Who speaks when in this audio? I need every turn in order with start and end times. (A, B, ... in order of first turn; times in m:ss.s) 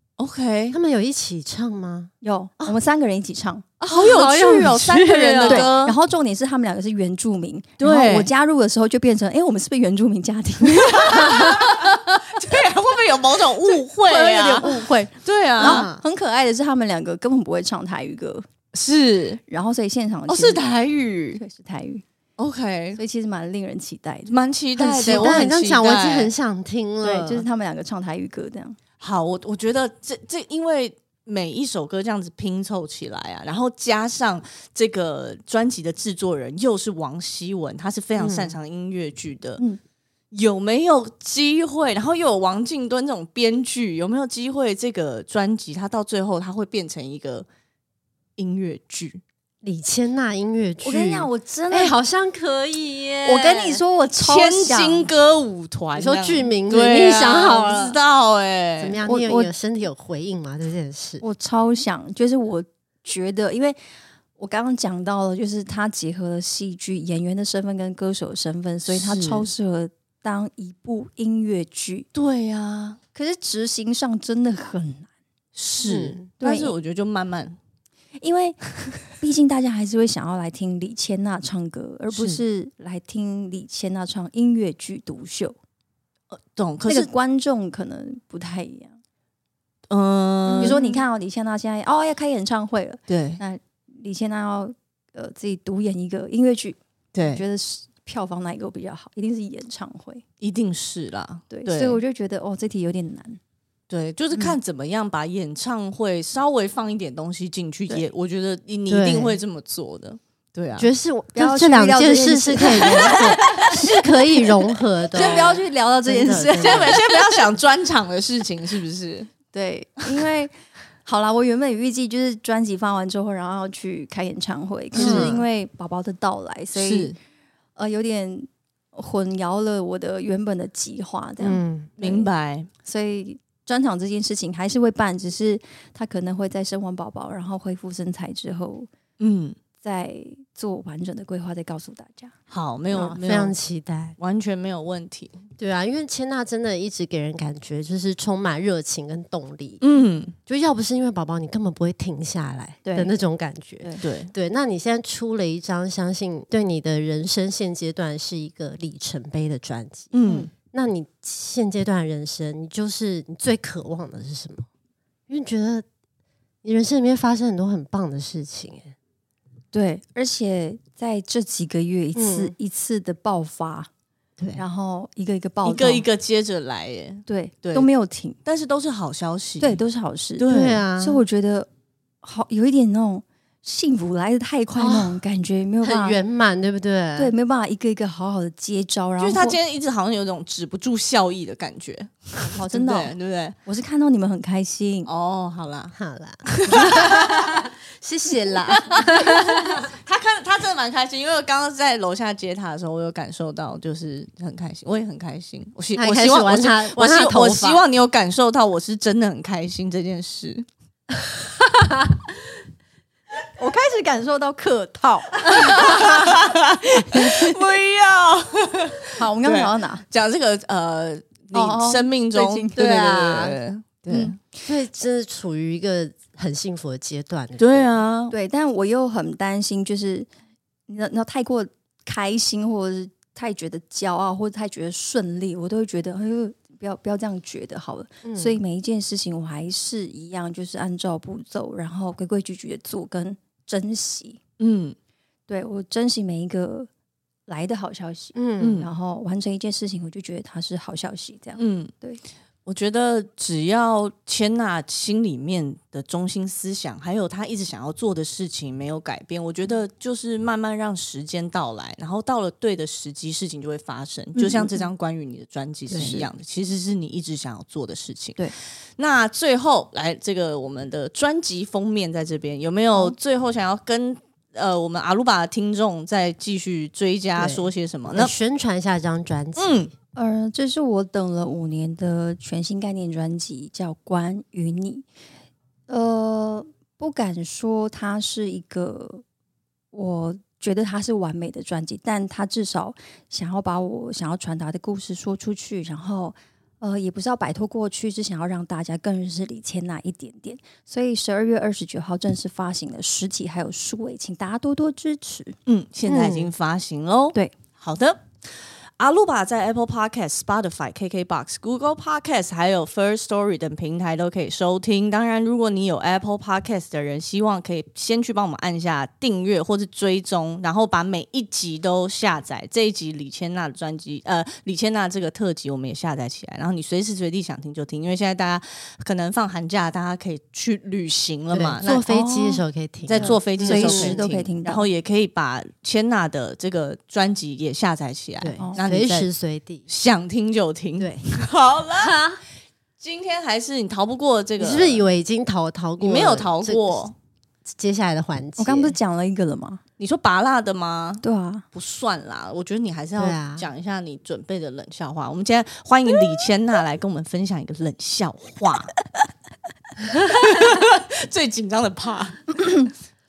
0:00.2-0:00.8 A
0:00.7-0:02.7 B
0:02.2-0:03.8 C
0:03.8-0:05.9 A
0:03.9-0:05.7 B
0:05.4-0:11.9 C
0:07.8-0:08.3 A
0:10.8-0:15.9 A
0:14.0-0:18.4 C
0:15.6-0:16.0 B
0:18.7-0:19.4 A
0:19.5-0:20.6 C
0:20.3-0:21.4 A
0:21.3-0:22.0 C
0:22.4-0:23.0 A
0:23.0-0:25.5 C
0:24.3-0:26.3 A
0:24.8-0:27.4 B
0:27.0-0:28.8 C
0:29.0-0:39.6 A
0:38.2-0:38.6 B
0:40.3-0:47.5 A
0:48.4-0:49.2 A
0:49.6-0:53.8 B
0:50.8-0:51.9 C
0:53.2-0:55.1 C
0:54.2-0:59.0 A
0:55.9-0:58.0 B
0:58.8-1:01.2 B
0:59.0-0:59.5 C
1:01.2-1:03.8 C
1:04.4-1:12.1 C
1:08.9-1:09.5 A
1:12.1-1:13.0 A
1:13.1-1:15.1 C
1:15.5-1:17.6 A
1:15.8-1:16.3 B
1:16.4-1:16.7 C
1:18.2-1:25.5 C
1:22.1-1:22.4 B
1:26.3-1:27.1 A
1:26.9-1:29.0 C
1:29.9-1:30.8 A
1:30.5-1:31.0 B
1:30.6-1:40.2 C
1:33.1-1:33.4 A
1:37.1-1:37.4 A
1:40.4-1:42.0 A
1:41.5-1:43.4 C
1:43.9-1:50.9 A
1:48.9-1:49.4 B
1:50.8-1:57.0 B
1:51.3-1:54.5 C
1:53.0-1:53.6 A
1:55.1-1:57.2 C
1:55.2-1:55.4 A
1:56.6-1:59.3 A
1:59.5-2:07.1 C
2:04.9-2:05.4 A
2:04.9-2:05.4 B
2:06.7-2:07.2 A
2:07.8-2:12.3 C
2:11.4-2:11.9 B
2:12.0-2:12.7 A
2:12.8-2:18.9 C
2:19.2-2:19.6 A
2:19.8-2:22.3 C
2:22.5-2:23.6 A
2:22.9-2:24.2 B
2:24.2-2:25.4 A
2:25.6-2:29.8 B
2:29.8-2:30.3 A
2:30.4-2:40.1 B
2:32.8-2:33.1 C
2:34.0-2:34.3 A
2:40.1-2:40.5 A
2:40.2-2:40.5 C
2:40.7-2:44.7 B
2:45.3-2:45.8 B
2:46.6-2:48.9 B
2:49.7-2:53.9 C
2:52.1-2:52.5 B
2:54.6-2:56.0 C
2:55.6-2:57.9 A
2:57.3-2:58.4 C
2:58.4-2:59.8 A
2:59.6-3:00.5 C
3:00.4-3:00.8 A
3:00.4-3:01.2 B
3:01.0-3:01.7 C
3:02.2-3:06.2 C
3:04.8-3:05.2 B
3:05.8-3:07.3 B
3:07.2-3:09.6 C
3:09.2-3:13.6 A
3:12.4-3:15.1 C
3:15.0-3:15.9 A
3:15.9-3:19.9 B
3:16.4-3:17.6 A
3:19.2-3:30.6 A
3:26.0-3:27.8 B
3:33.6-3:37.6 C
3:35.7-3:44.4 A
3:39.1-3:40.0 C
3:41.5-3:42.8 C
3:42.7-3:48.0 B
3:47.6-3:48.3 A
3:48.3-3:50.3 C
3:50.9-4:04.4 C
3:58.2-3:58.6 B
4:04.6-4:05.0 A
4:05.5-4:06.9 C
4:07.5-4:12.2 C
4:08.3-4:08.8 B
4:08.6-4:08.9 A
4:11.6-4:11.9 A
4:12.6-4:38.3 A
4:24.3-4:24.8 C
4:25.9-4:26.3 C
4:37.4-4:39.8 B
4:39.6-4:39.9 A
4:40.1-4:45.0 C
4:45.9-4:49.2 C
4:49.9-5:05.6 C
5:05.7-5:32.0 A
5:06.0-5:06.5 B
5:31.5-5:34.2 B
5:31.8-5:34.9 C
5:33.1-5:39.3 A
5:38.4-5:39.8 B
5:39.9-5:42.3 A
5:41.0-5:41.2 B
5:42.0-5:42.4 B
5:43.0-5:45.1 A
5:44.6-5:47.0 B
5:46.0-5:47.1 A
5:47.6-5:49.0 B
5:48.6-5:49.8 C
5:50.0-5:58.9 A
5:51.2-5:51.6 C
5:53.2-5:53.7 B
6:00.0-6:02.6 A